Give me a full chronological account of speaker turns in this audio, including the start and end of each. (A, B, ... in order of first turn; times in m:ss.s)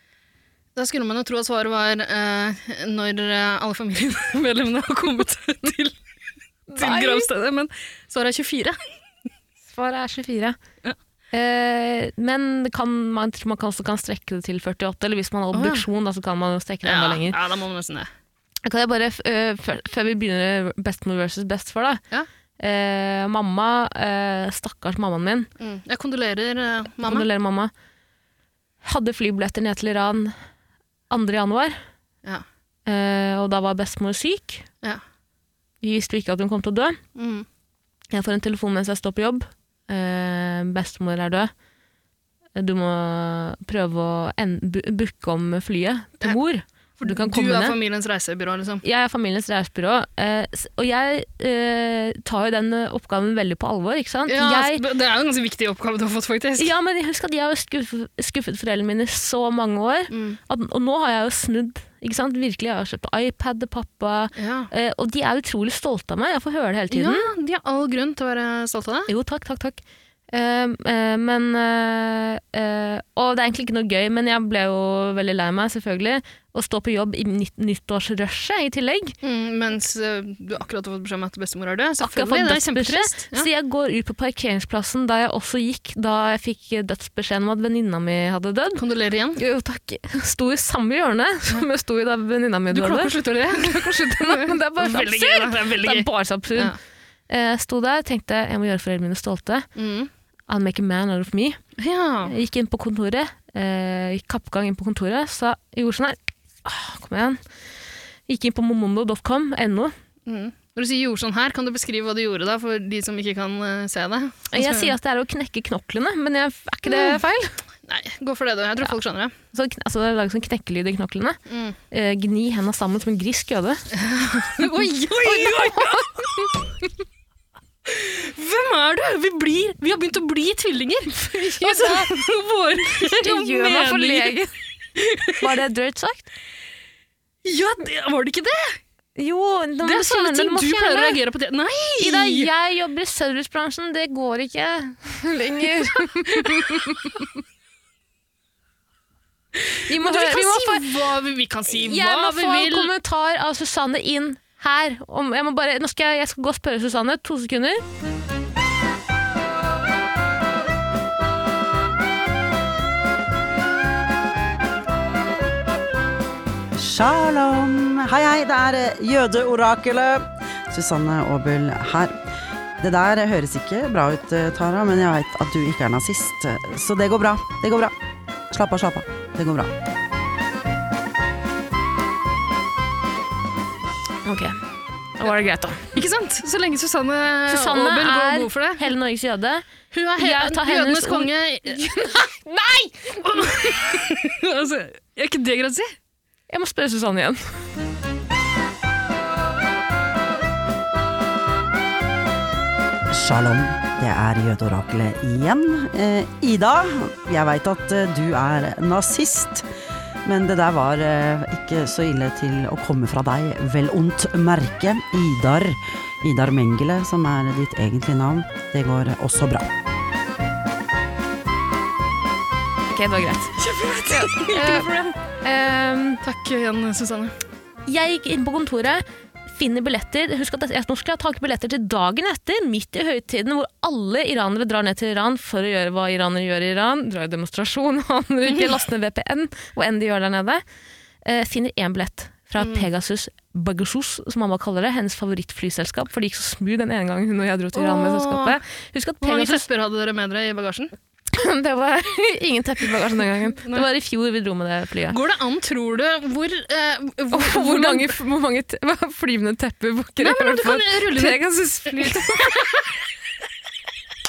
0:00.8-0:06.0 A
0:06.7-0:07.3 B
0:06.8-0:08.8 A
0:09.6-0:10.6 B
0:11.3-0:17.4 B
0:15.5-0:15.9 A
0:16.8-0:18.1 A
0:18.6-0:22.0 B
0:22.6-0:25.5 B
0:25.6-0:27.3 A
0:27.0-0:27.7 B
0:28.8-0:30.4 B
0:31.1-0:31.8 B
0:32.9-0:34.7 B
0:35.8-0:37.0 B
0:37.2-0:37.5 A
0:38.1-0:41.5 B
0:42.6-0:47.8 B
0:47.0-0:48.8 A
0:48.8-0:54.8 B
0:54.3-0:56.7 A
0:56.6-1:07.3 B
1:00.1-1:00.4 A
1:04.4-1:04.7 A
1:06.9-1:09.1 A
1:09.1-1:09.8 B
1:10.3-1:19.2 B
1:19.2-1:23.5 A
1:22.0-1:28.8 B
1:28.8-1:29.4 A
1:29.4-1:36.8 B
1:32.7-1:36.8 A
1:37.3-1:39.7 B
1:39.8-1:40.1 A
1:40.5-1:41.6 B
1:41.8-1:42.3 A
1:42.2-1:47.4 B
1:48.3-1:49.9 B
1:50.3-1:54.9 A
1:54.5-1:57.6 B
1:56.8-1:57.2 A
1:57.8-1:59.3 A
1:59.5-2:01.4 B
2:01.5-2:01.8 A
2:01.9-2:03.8 B
2:03.9-2:06.4 A
2:04.6-2:06.5 B
2:07.9-2:14.3 A
2:11.1-2:12.1 B
2:13.0-2:14.5 B
2:15.0-2:15.4 A
2:15.4-2:16.3 B
2:17.4-2:18.8 A
2:19.2-2:21.2 B
2:19.8-2:22.5 A
2:22.0-2:27.2 B
2:29.6-2:32.9 A
2:29.9-2:30.9 B
2:31.7-2:37.8 B
2:46.8-2:52.2 C
2:52.8-2:57.9 C
2:58.5-2:59.7 C
3:04.2-3:04.6 B
3:05.2-3:06.0 B
3:06.0-3:08.8 A
3:07.5-3:09.7 B
3:09.9-3:11.8 A
3:10.2-3:13.5 B
3:13.2-3:15.9 A
3:16.5-3:17.5 B
3:23.1-3:29.6 C
3:30.2-3:39.7 C
3:42.9-3:44.9 B
3:43.6-3:45.2 A
3:45.4-3:46.2 B
3:46.2-3:47.4 A
3:47.9-4:00.6 B
4:01.2-4:09.6 B
4:02.6-4:02.9 A
4:07.8-4:08.6 A
4:09.2-4:10.9 A
4:11.3-4:15.2 B
4:13.5-4:13.9 A
4:15.1-4:18.1 A
4:17.3-4:22.6 B
4:20.2-4:22.6 A